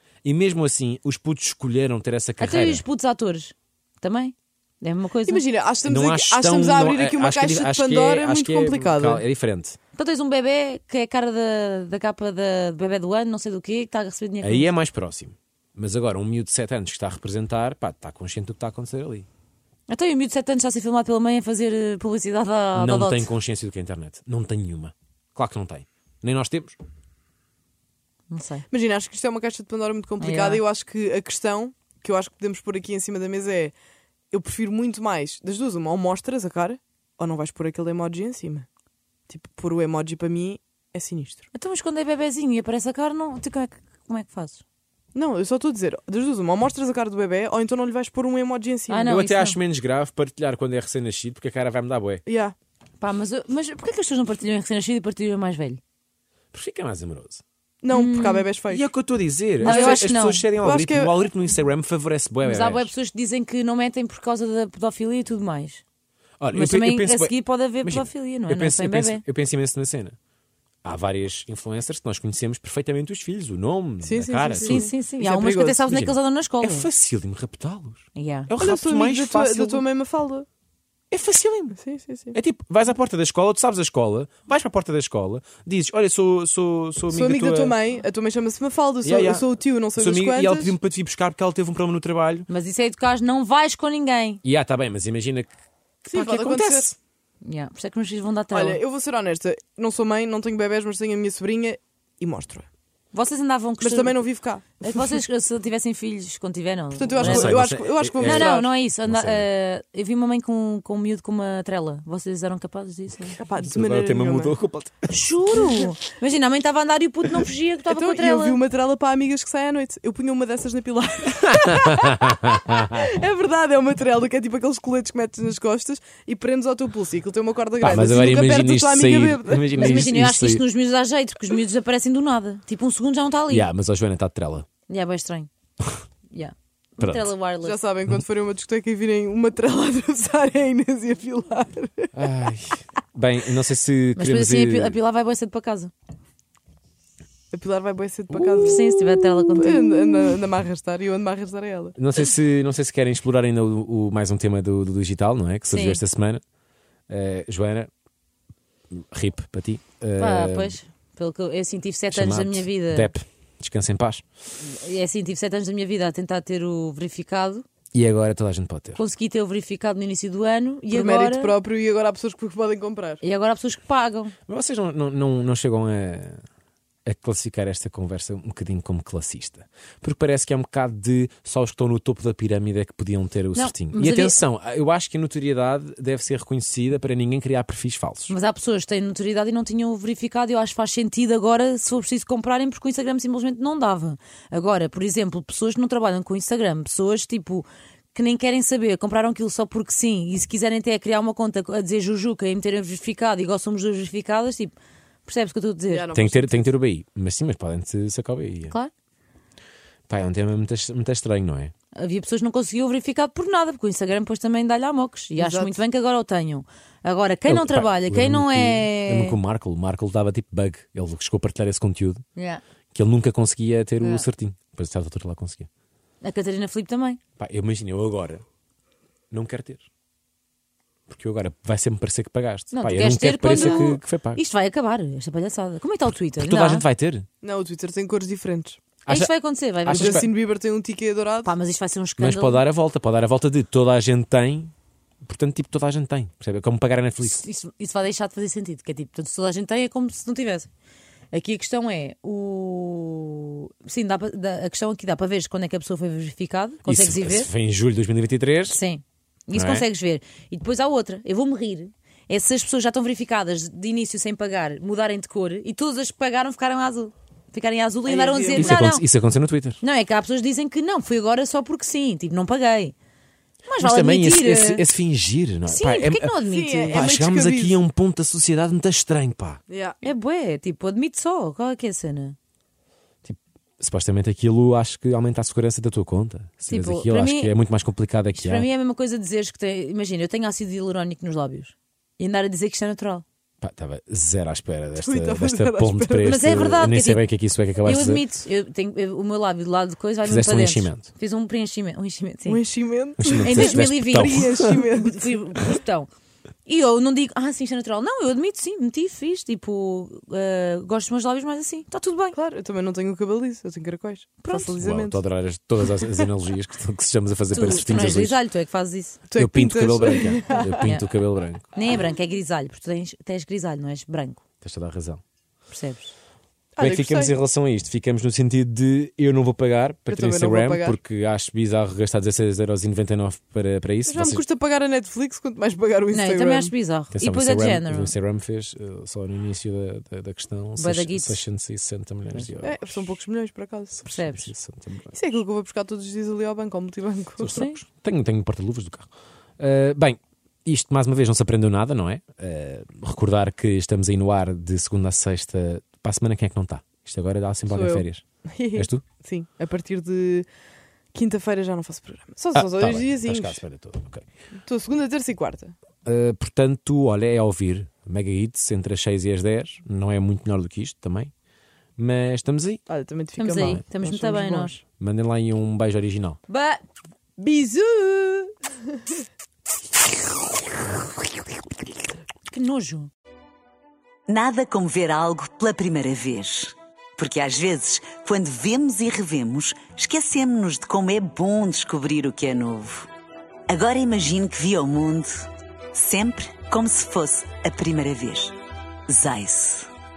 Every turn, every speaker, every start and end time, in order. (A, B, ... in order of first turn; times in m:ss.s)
0:00.2-0:02.8 A
0:02.4-0:05.4 B
0:05.2-0:09.3 C
0:05.8-0:09.8 A
0:10.0-0:14.7 B
0:14.4-0:19.3 A
0:19.9-0:23.3 B
0:22.8-0:26.8 A
0:28.3-0:28.7 B
0:28.7-0:33.7 C
0:30.2-0:30.6 B
0:34.3-0:38.7 C
0:39.3-0:41.4 C
0:41.5-0:44.6 B
0:45.1-0:49.1 C
0:48.9-0:49.6 B
0:49.0-0:52.2 A
0:52.3-0:52.6 C
0:53.0-0:55.8 B
0:56.5-0:57.4 A
0:57.8-0:58.9 C
0:57.9-0:58.5 B
0:58.7-1:02.9 A
0:59.6-1:01.2 C
0:59.6-1:00.5 B
1:02.4-1:05.8 B
1:06.4-1:10.2 A
1:06.5-1:09.2 B
1:10.8-1:14.9 A
1:14.0-1:15.8 C
1:14.6-1:16.9 B
1:15.8-1:19.8 A
1:18.2-1:18.5 B
1:18.6-1:20.5 C
1:21.1-1:21.8 A
1:21.7-1:22.4 C
1:22.3-1:27.8 A
1:27.1-1:30.8 C
1:29.0-1:29.4 A
1:30.0-1:32.5 A
1:32.5-1:34.4 B
1:34.4-1:35.5 A
1:36.0-1:37.0 A
1:36.1-1:36.9 C
1:37.4-1:38.8 B
1:38.5-1:42.7 C
1:43.1-1:44.2 B
1:43.8-1:45.2 C
1:44.8-1:47.6 B
1:46.9-1:48.7 C
1:47.2-1:49.5 A
1:48.2-1:53.4 B
1:53.4-1:54.6 C
1:53.6-1:55.2 A
1:55.1-1:58.6 B
1:57.9-2:10.1 C
2:01.6-2:03.0 A
2:07.8-2:10.6 A
2:09.8-2:13.7 B
2:13.5-2:14.7 A
2:14.9-2:15.5 B
2:16.3-2:17.8 B
2:17.0-2:17.4 A
2:17.6-2:22.2 C
2:22.2-2:25.0 A
2:24.2-2:25.9 B
2:27.5-2:28.8 C
2:28.3-2:29.4 A
2:28.6-2:30.4 B
2:29.6-2:32.0 C
2:32.0-2:36.4 A
2:35.7-2:36.0 B
2:37.1-2:37.9 A
2:38.9-2:40.8 A
2:40.2-2:43.1 B
2:42.1-2:44.2 A
2:44.6-2:47.6 B
2:47.9-2:49.0 A
2:49.0-2:51.6 B
2:50.9-2:53.2 C
2:53.2-2:54.4 B
2:54.5-2:56.4 A
2:57.1-3:08.3 A
3:03.5-3:04.4 B
3:08.3-3:26.2 B
3:25.9-3:26.8 C
3:26.2-3:28.8 A
3:28.7-3:28.9 B
3:30.1-3:31.7 A
3:31.9-3:39.4 B
3:35.4-3:35.8 C
3:37.5-3:42.2 A
3:42.4-3:42.6 B
3:42.9-3:45.7 A
3:44.0-3:44.3 B
3:46.2-3:47.2 B
3:47.4-3:48.4 A
3:49.3-3:49.9 A
3:51.1-3:54.4 A
3:52.7-3:56.9 B
3:56.4-3:57.3 A
3:57.4-3:58.8 C
3:59.1-3:59.3 A
3:59.1-4:00.3 B
3:59.8-4:00.3 A
3:59.9-4:01.5 C
4:01.4-4:02.7 B
4:02.2-4:04.7 A
4:05.2-4:07.4 A
4:07.2-4:10.7 B
4:11.3-4:17.5 B
4:16.9-4:18.8 A
4:18.7-4:29.1 B
4:19.5-4:19.9 A
4:28.0-4:28.8 C
4:28.6-4:29.8 A
4:29.8-4:33.0 B
4:33.7-4:34.8 B
4:33.7-4:36.4 A
4:35.7-4:37.1 B
4:36.5-4:37.8 C
4:36.9-4:39.6 A
4:39.7-4:40.0 C
4:40.0-4:42.4 B
4:43.2-4:48.7 A
4:46.7-4:47.5 B
4:48.3-4:53.2 B
4:53.6-4:58.2 A
4:55.0-4:56.4 C
4:56.2-4:57.2 B
4:57.8-5:02.6 B
5:00.2-5:01.0 A
5:02.4-5:05.2 C
5:03.2-5:04.8 A
5:03.4-5:06.1 B
5:06.7-5:12.4 B
5:12.3-5:15.2 C
5:14.4-5:14.8 B
5:14.8-5:18.4 A
5:15.9-5:16.1 C
5:17.5-5:19.2 B
5:19.3-5:20.9 C
5:19.4-5:21.7 A
5:21.7-5:24.4 B
5:24.6-5:25.2 A
5:25.7-5:26.1 B
5:26.8-5:27.4 C
5:26.8-5:34.4 A
5:30.1-5:31.0 C
5:34.1-5:36.7 C
5:36.1-5:38.1 B
5:37.1-5:43.1 A
5:40.8-5:41.4 B
5:42.6-5:44.0 C
5:44.0-5:45.2 A
5:44.0-5:44.5 B
5:45.1-5:47.6 C
5:47.4-5:58.2 A
5:47.5-5:47.8 B
5:57.7-6:00.5 C
5:58.8-5:59.0 A
6:01.1-6:03.6 C
6:02.6-6:04.3 A
6:04.6-6:05.8 C
6:06.0-6:11.3 A
6:12.0-6:12.8 A
6:12.9-6:14.8 C
6:13.4-6:14.8 B
6:15.0-6:16.4 A
6:16.5-6:16.8 B
6:17.4-6:18.5 C
6:22.5-6:23.1 B
6:24.3-6:33.1 D
6:33.7-6:38.6 D
6:39.1-6:39.9 D